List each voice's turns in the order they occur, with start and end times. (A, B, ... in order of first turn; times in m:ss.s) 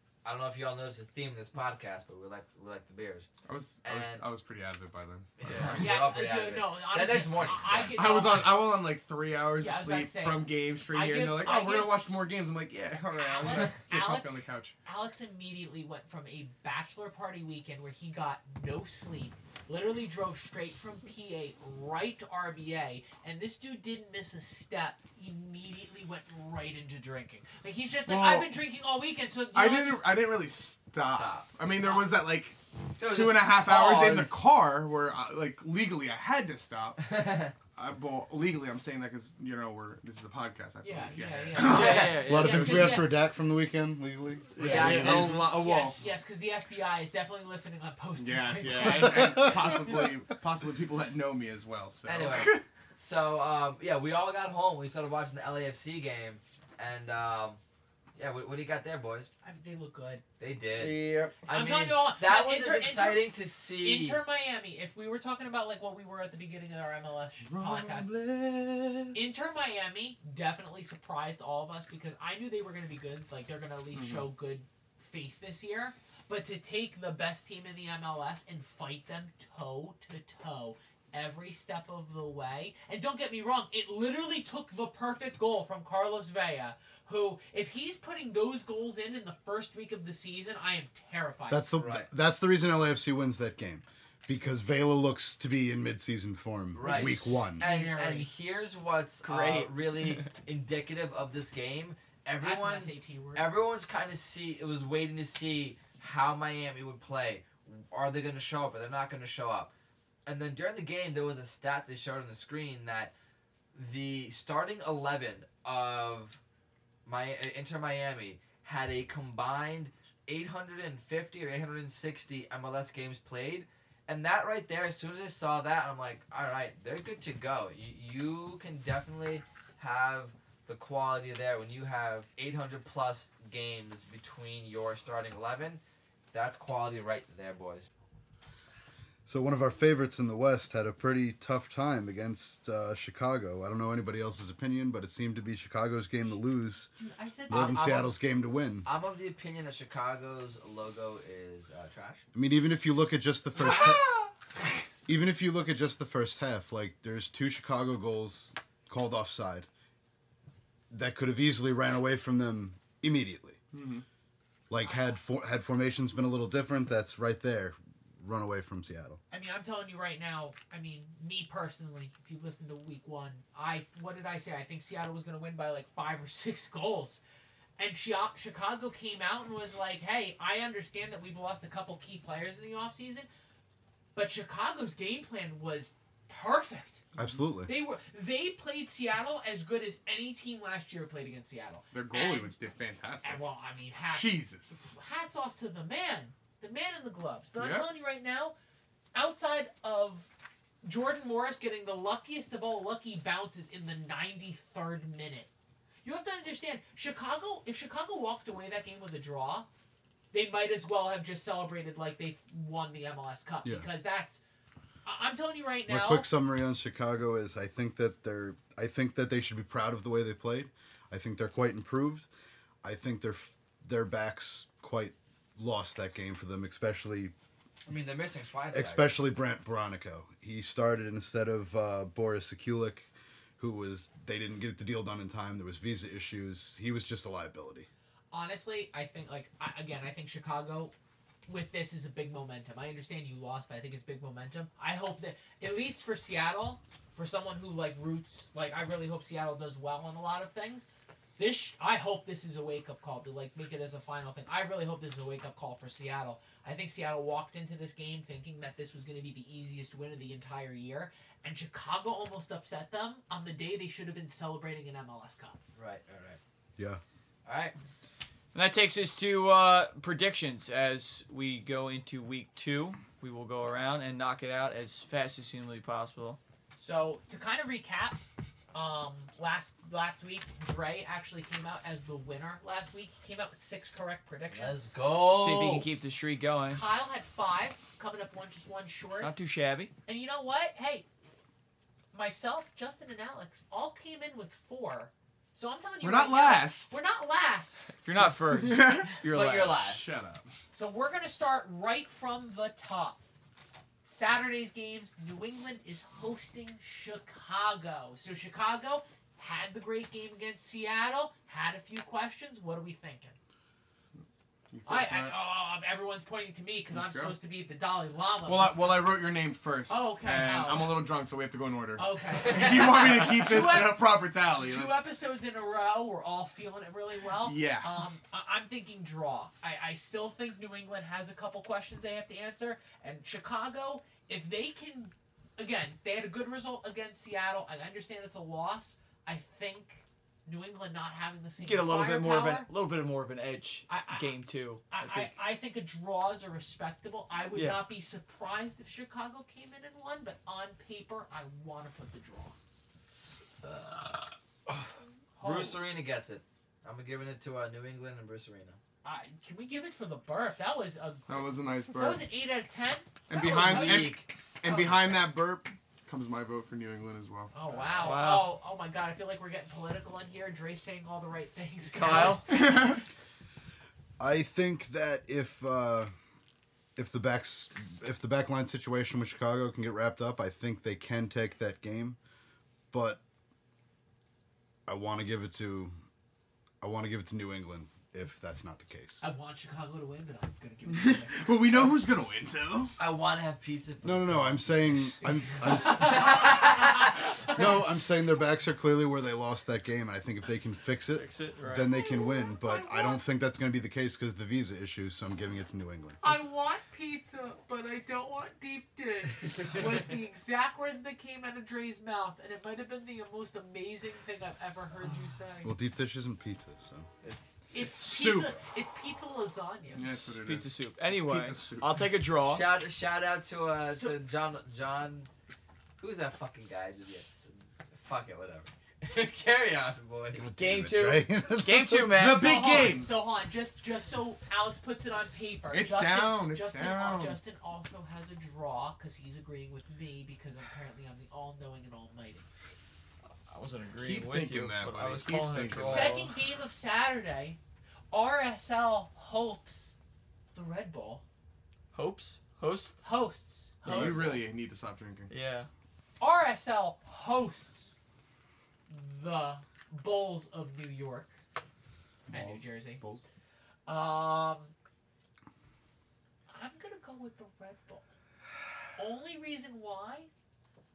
0:00.2-0:03.3 A
0:03.4-0:06.0 B
0:03.8-0:04.2 A
0:05.4-0:08.0 A
0:05.7-0:08.7 C
0:07.9-0:14.7 B
0:09.6-0:12.0 C
0:13.1-0:30.0 C
0:28.0-0:28.6 B
0:29.5-0:37.2 B
0:31.1-0:31.5 A
0:33.0-0:34.4 A
0:37.0-0:37.5 A
0:37.7-0:43.0 B
0:40.8-0:43.1 C
0:41.5-0:43.0 D
0:41.7-0:42.1 A
0:42.2-0:45.4 E
0:44.5-0:46.0 B
0:44.6-0:50.1 C
0:44.6-0:45.6 A
0:48.2-0:52.6 B
0:49.0-0:49.6 E
0:52.0-0:57.6 A
0:58.1-0:59.3 A
0:59.4-1:00.2 C
1:00.4-1:04.2 A
1:01.5-1:08.1 C
1:07.4-1:09.2 B
1:09.1-1:31.7 C
1:13.9-1:14.3 B
1:31.5-1:37.6 E
1:31.8-1:32.1 A
1:36.7-1:49.7 A
1:36.8-1:38.3 C
1:39.2-1:40.3 D
1:42.4-1:43.5 C
1:50.2-1:53.1 A
1:53.7-1:56.4 A
1:57.0-2:17.9 A
2:19.2-2:26.9 E
2:27.0-2:27.9 C
2:27.5-2:28.9 E
2:27.5-2:28.1 A
2:28.8-2:32.2 A
2:32.3-2:34.0 E
2:35.1-2:39.7 E
2:40.9-2:43.6 E
2:43.7-2:44.0 B
2:44.7-2:49.2 E
2:44.8-2:45.2 C
2:49.3-2:57.2 C
2:57.8-3:03.3 C
3:04.1-3:07.0 C
3:07.2-3:07.7 E
3:07.6-3:12.6 C
3:11.9-3:13.4 B
3:13.2-3:18.5 C
3:14.0-3:14.8 B
3:17.6-3:17.9 B
3:19.1-3:20.3 C
3:20.8-3:25.5 C
3:26.0-3:29.7 C
3:30.3-3:34.4 C
3:35.0-3:36.3 C
3:35.9-3:42.3 E
3:42.8-3:47.3 E
3:47.8-3:49.1 A
3:48.7-3:57.9 E
3:58.3-4:00.9 C
4:01.5-4:10.9 C
4:11.4-4:25.6 C
4:25.8-4:26.4 A
4:27.4-4:27.7 A
4:28.5-4:36.4 D
4:36.8-4:38.2 C
4:38.7-4:44.8 C
4:44.5-4:45.9 A
4:45.3-4:46.8 D
4:46.7-4:49.3 C
4:49.2-4:49.9 D
4:50.0-4:51.0 C
4:52.1-4:58.0 C
4:56.0-4:57.0 B
4:58.0-4:59.8 D
4:58.2-4:59.2 B
4:59.3-5:00.1 A
4:59.7-5:00.5 B
5:00.7-5:03.2 C
5:04.0-5:13.4 C
5:14.7-5:15.4 B
5:14.8-5:19.1 C
5:16.9-5:17.4 B
5:18.4-5:25.0 B
5:19.9-5:21.0 C
5:22.0-5:42.7 C
5:27.4-5:27.9 B
5:41.6-5:45.3 D
5:43.9-5:44.3 C
5:44.9-5:52.6 C
5:47.5-5:47.8 D
5:53.6-5:58.8 A
5:55.4-5:55.8 C
5:59.0-6:05.3 C
6:01.3-6:02.2 B
6:03.3-6:07.5 B
6:03.5-6:04.3 A
6:07.5-6:13.0 C
6:08.0-6:08.5 D
6:11.9-6:12.4 D
6:12.1-6:13.0 B
6:14.2-6:16.1 E
6:17.0-6:22.2 E
6:22.9-6:23.2 E
6:24.8-6:25.9 E
6:26.8-6:29.2 E
6:29.2-6:31.5 C
6:30.9-6:32.9 B
6:33.0-6:35.1 A
6:34.0-6:36.5 E
6:35.6-6:37.7 C
6:36.0-6:37.2 A
6:37.5-6:46.3 E
6:41.1-6:41.9 D
6:41.8-6:43.2 C
6:46.2-6:55.7 C
6:55.6-6:57.1 E
6:57.2-6:57.7 A
6:57.7-7:00.1 C
6:57.9-6:58.5 B
6:59.9-7:02.1 B
7:00.0-7:02.7 D
7:02.4-7:05.3 A
7:06.0-7:10.5 A
7:10.3-7:12.1 E
7:10.6-7:12.9 D
7:12.1-7:13.1 B
7:12.4-7:22.5 C
7:15.7-7:17.4 B
7:23.5-7:26.3 D
7:24.0-7:26.2 B
7:25.7-7:27.6 C
7:28.1-7:29.9 C
7:30.5-7:31.2 C
7:31.9-7:33.2 D
7:33.0-7:34.4 C
7:33.8-7:35.3 B
7:33.9-7:34.3 D
7:35.3-7:35.7 D
7:36.2-7:38.0 C
7:38.9-7:41.4 C
7:42.3-7:43.2 B
7:42.3-7:43.0 C
7:43.8-7:44.7 C
7:46.5-7:48.1 C
7:49.0-7:50.3 C